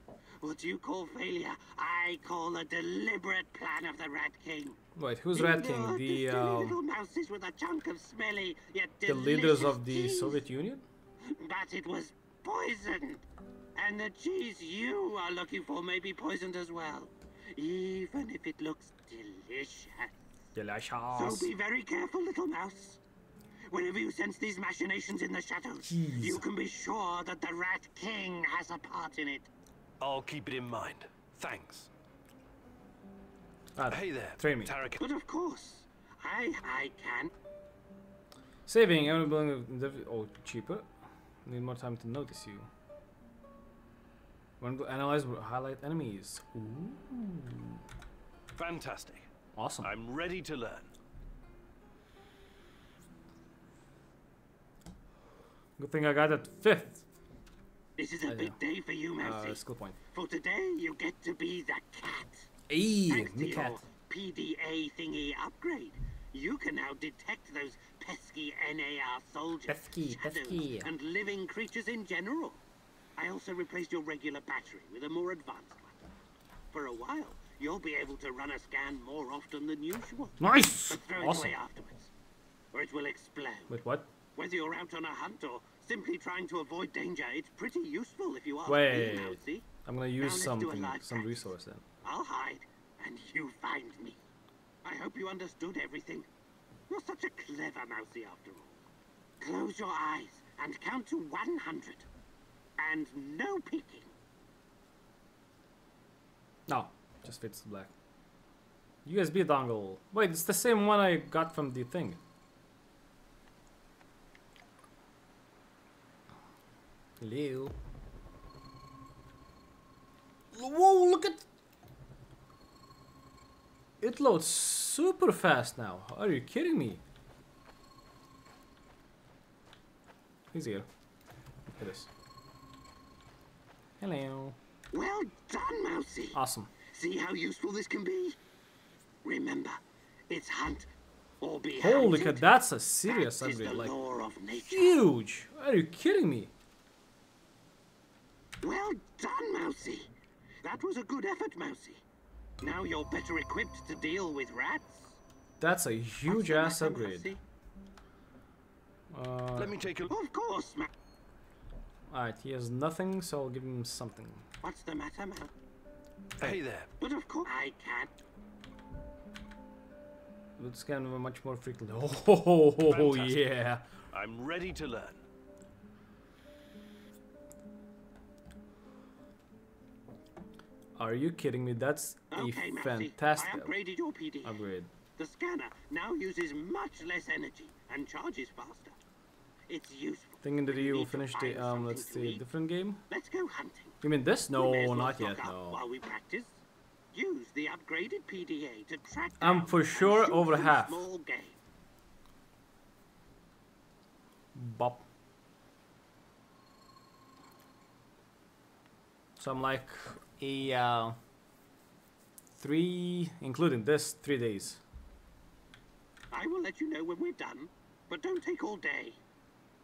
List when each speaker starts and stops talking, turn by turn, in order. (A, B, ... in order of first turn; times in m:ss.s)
0:00.4-0:04.8 A
0:05.0-0:06.8 B
0:05.3-0:10.4 A
0:09.0-0:10.8 B
0:11.2-0:20.2 A
0:20.5-0:21.5 B
0:21.1-0:23.0 A
0:23.7-0:29.5 A
0:25.8-0:26.4 B
0:30.0-0:31.9 C
0:33.7-0:34.8 B
0:33.9-0:35.0 C
0:35.0-0:37.3 A
0:38.7-0:40.9 B
0:41.4-0:42.7 B
0:44.6-0:47.8 B
0:48.5-0:49.3 C
0:49.5-0:49.9 B
0:49.8-0:50.9 C
0:55.8-0:57.0 B
0:58.0-0:59.6 A
0:58.2-0:58.6 B
0:59.2-1:00.0 B
1:00.1-1:02.5 A
1:02.7-1:03.8 B
1:03.1-1:12.6 A
1:09.7-1:10.9 B
1:13.2-1:15.9 A
1:16.7-1:22.1 A
1:20.4-1:21.6 B
1:22.7-1:23.7 A
1:23.7-1:24.1 B
1:24.3-1:29.7 A
1:28.6-1:31.8 B
1:30.2-1:31.4 A
1:32.0-1:34.2 A
1:34.8-1:36.3 A
1:36.9-1:38.8 A
1:39.4-1:42.1 A
1:42.8-1:44.1 A
1:46.7-1:47.9 B
1:49.0-1:52.2 B
1:57.2-1:57.8 B
2:00.5-2:01.4 B
2:04.0-2:07.0 B
2:10.5-2:10.9 B
2:11.7-2:12.1 B
2:14.0-2:14.6 B
2:14.9-2:18.4 A
2:16.3-2:16.7 B
2:19.2-2:20.9 A
2:21.4-2:22.4 A
2:21.8-2:24.0 B
2:23.0-2:25.0 A
2:24.5-2:26.5 B
2:28.6-2:30.1 A
2:30.6-2:32.0 A
2:32.6-2:35.2 A
2:35.6-2:37.3 B
2:36.2-2:37.4 A
2:39.1-2:39.8 B
2:39.5-2:40.1 C
2:40.1-2:40.9 A
2:42.1-2:44.5 B
2:44.6-2:45.5 A
2:46.4-2:46.9 C
2:47.0-2:48.1 A
2:50.6-2:53.8 B
2:52.8-2:53.5 C
2:54.1-2:55.2 C
3:01.0-3:03.7 B
3:02.3-3:04.6 A
3:04.4-3:04.9 B
3:05.2-3:09.0 A
3:09.7-3:12.4 A
3:10.4-3:13.0 B
3:13.1-3:21.6 A
3:14.0-3:15.8 B
3:19.4-3:21.0 B
3:24.5-3:25.0 B
3:29.4-3:31.2 B
3:32.6-3:34.8 B
3:36.3-3:39.2 A